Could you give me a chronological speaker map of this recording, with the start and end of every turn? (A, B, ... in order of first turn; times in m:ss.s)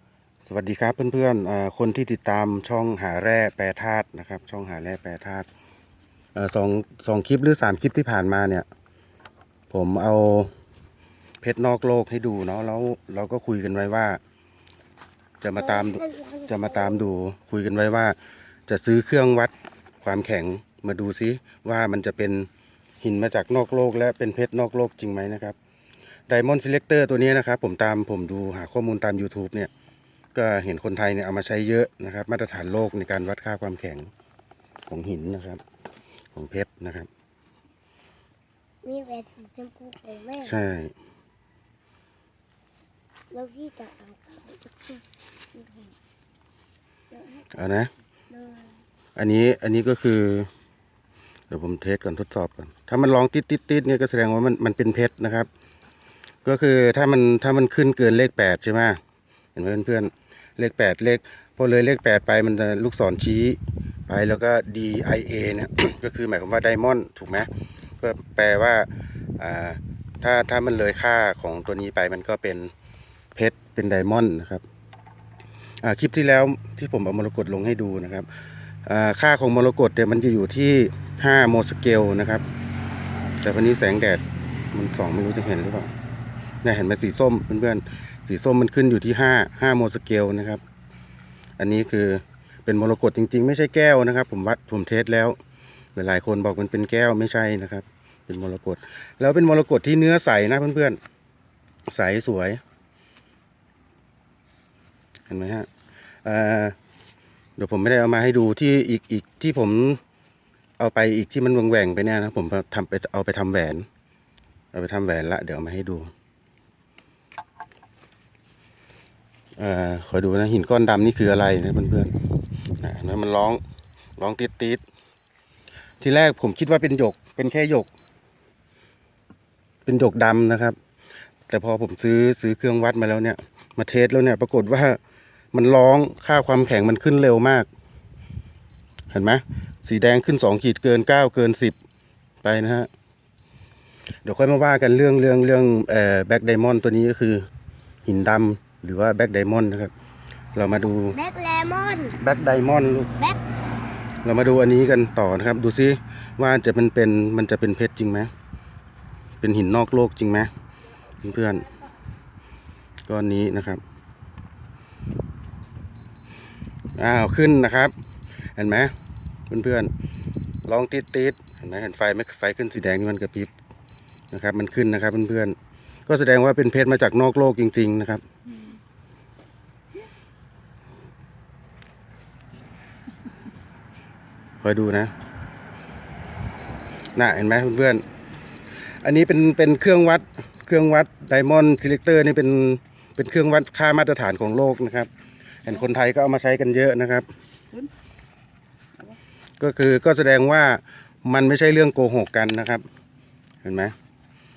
0:00.4-0:05.5 A
0:06.3-0:08.6 A
0:09.7-0:10.5 A
0:11.4-0:14.2 A
0:15.4-0:18.2 A
0:15.6-0:17.0 B
0:18.7-0:22.5 A
0:23.0-0:25.6 A
0:26.3-0:29.7 A
0:30.3-0:34.1 A
0:34.9-0:35.6 A
0:36.3-0:37.1 A
0:38.8-0:40.6 B
0:40.4-0:40.9 A
0:43.3-0:45.9 B
0:47.1-0:47.5 B
0:47.5-0:47.9 A
0:48.3-0:48.7 B
0:49.2-0:50.5 A
0:51.5-0:55.5 A
0:56.4-0:59.0 A
0:59.6-1:07.5 A
1:08.0-1:12.7 A
1:13.3-1:14.6 A
1:15.8-1:18.3 A
1:18.8-1:22.4 A
1:23.4-1:25.9 A
1:26.6-1:30.6 A
1:31.6-1:35.4 A
1:36.0-1:41.0 A
1:41.9-1:42.6 A
1:45.3-1:45.7 A
1:46.2-1:46.7 A
1:47.6-1:50.0 A
1:50.8-1:53.8 A
1:54.7-1:56.1 A
1:59.6-2:02.1 A
2:02.8-2:03.6 A
2:04.2-2:04.8 A
2:06.0-2:07.9 A
2:09.8-2:10.8 A
2:11.5-2:15.0 A
2:15.5-2:17.7 A
2:19.1-2:21.8 A
2:22.4-2:22.9 A
2:24.2-2:27.5 A
2:28.0-2:29.9 A
2:30.5-2:31.2 A
2:31.1-2:32.2 B
2:32.2-2:33.2 A
2:34.2-2:38.3 A
2:39.4-2:40.5 A
2:41.2-2:41.6 A
2:43.1-2:43.8 A
2:47.0-2:47.9 A
2:48.6-2:48.9 A
2:49.5-2:49.9 A
2:50.6-2:53.5 A
2:54.3-2:55.6 A
2:56.1-2:58.2 A
3:04.6-3:05.1 A
3:07.2-3:08.0 A
3:09.0-3:15.1 A
3:15.6-3:17.3 A
3:19.6-3:22.8 A
3:23.6-3:23.9 A